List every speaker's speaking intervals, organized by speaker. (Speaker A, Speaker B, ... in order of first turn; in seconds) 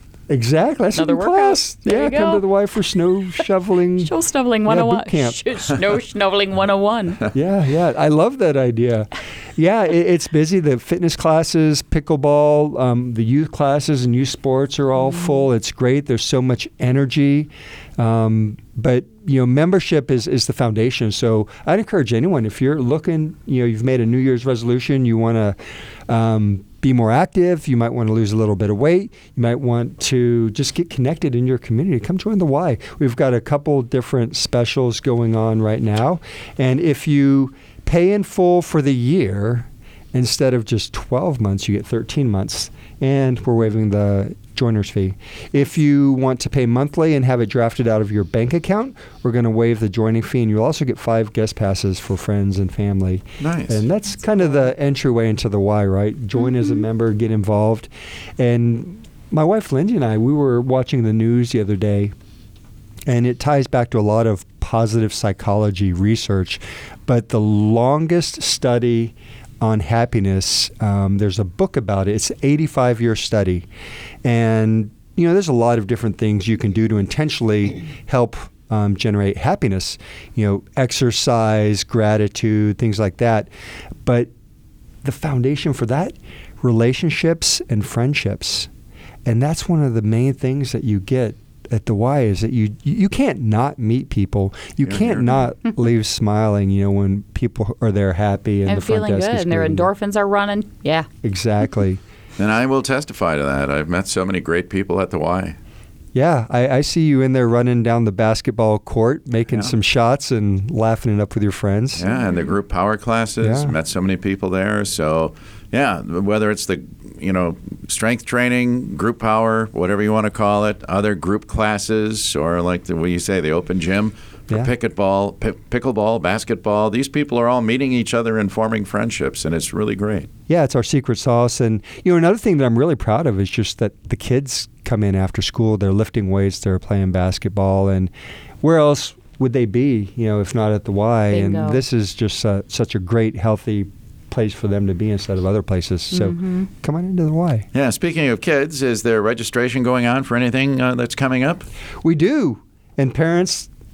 Speaker A: 0.3-4.1, 4.7-5.5, 7.3-62.1, 63.1-73.7, 74.2-83.5, 84.0-84.3, 85.0-88.7, 89.3-99.9, 101.2-102.0, 106.1-112.0, 113.4-113.7, 130.5-147.7, 152.0-153.7
Speaker B: 0.9-2.5, 4.0-7.3, 98.7-101.1, 112.2-112.4, 141.3-141.8, 146.1-146.7
Speaker C: 53.4-53.8, 94.8-95.5, 102.4-105.6, 112.0-130.3, 147.7-151.7